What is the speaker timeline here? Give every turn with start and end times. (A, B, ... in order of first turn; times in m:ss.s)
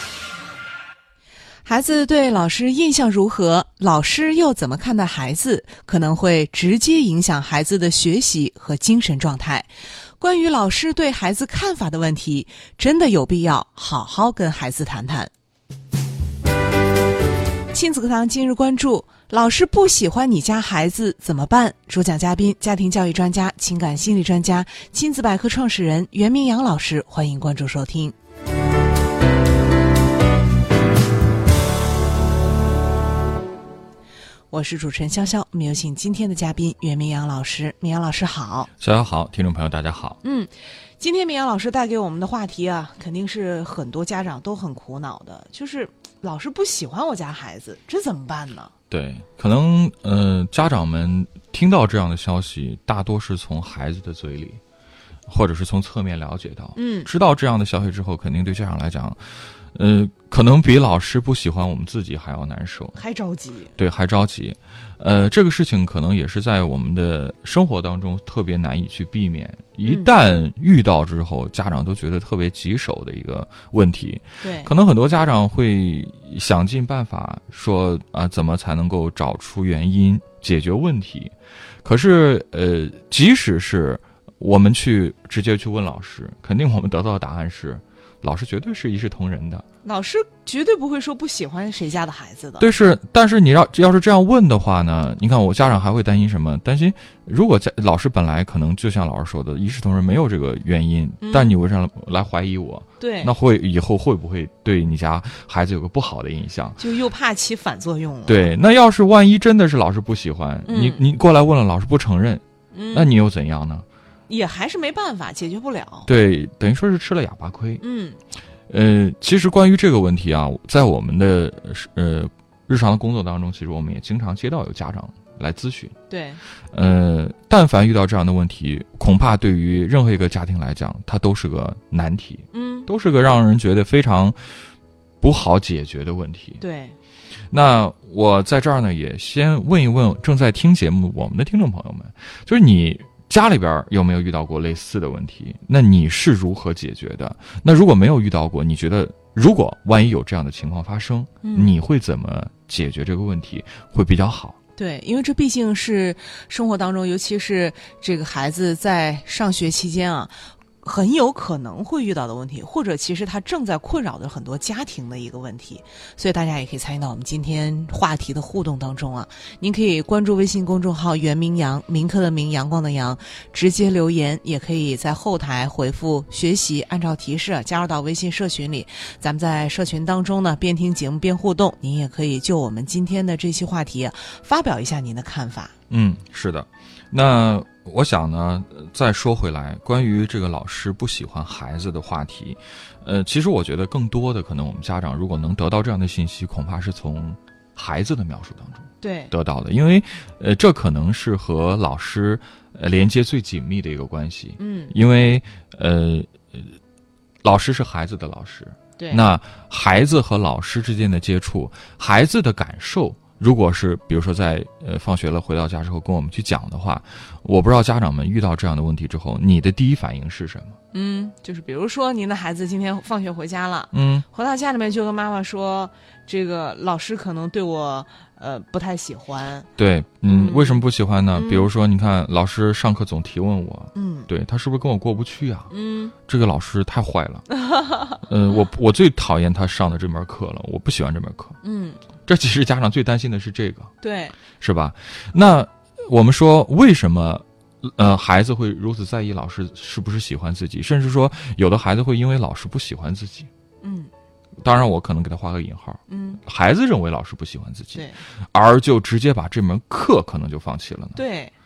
0:01.6-0:15.3 A
0:17.7-0:28.1 A
0:34.5-0:38.7 A
0:38.8-0:40.2 B
0:40.2-0:48.7 A
0:48.9-0:54.6 B
0:55.3-1:03.0 B
0:56.8-0:57.1 A
1:03.0-1:03.8 A
1:03.8-1:21.3 B
1:09.8-1:10.1 A
1:14.4-1:14.7 A
1:21.8-1:29.6 B
1:29.8-1:32.7 A
1:32.6-1:46.8 B
1:41.2-1:41.6 A
1:43.0-1:43.3 A
1:46.8-1:48.5 A
1:48.3-1:53.8 B
1:50.7-1:51.0 A
1:52.7-1:53.1 A
1:54.3-1:56.1 A
1:56.1-1:57.8 B
1:57.8-1:58.2 A
1:58.7-2:06.0 B
2:06.1-2:06.4 A
2:06.7-2:14.4 B
2:12.5-2:12.9 A
2:15.2-2:16.6 B
2:16.6-2:17.0 A
2:17.5-2:34.6 B
2:31.4-2:31.7 A
2:34.8-3:05.7 A
3:05.9-3:26.7 B
3:19.0-3:19.3 A
3:24.6-3:24.9 A
3:27.4-3:40.8 B
3:29.0-3:29.2 A
3:40.9-3:49.7 A
3:43.9-3:44.2 B
3:49.8-3:55.7 B
3:50.3-3:50.8 A
3:51.3-3:51.7 A
3:53.9-3:54.3 A
3:55.7-3:56.1 A
3:56.2-3:57.4 B
3:57.6-3:58.2 A
3:58.2-4:01.6 B
4:01.6-4:02.0 A
4:02.2-4:03.9 B
4:04.0-4:04.4 A
4:04.6-4:13.5 B
4:13.8-4:14.1 A
4:14.6-4:21.2 B
4:16.1-4:16.4 A
4:17.9-4:18.2 A
4:21.2-4:21.5 A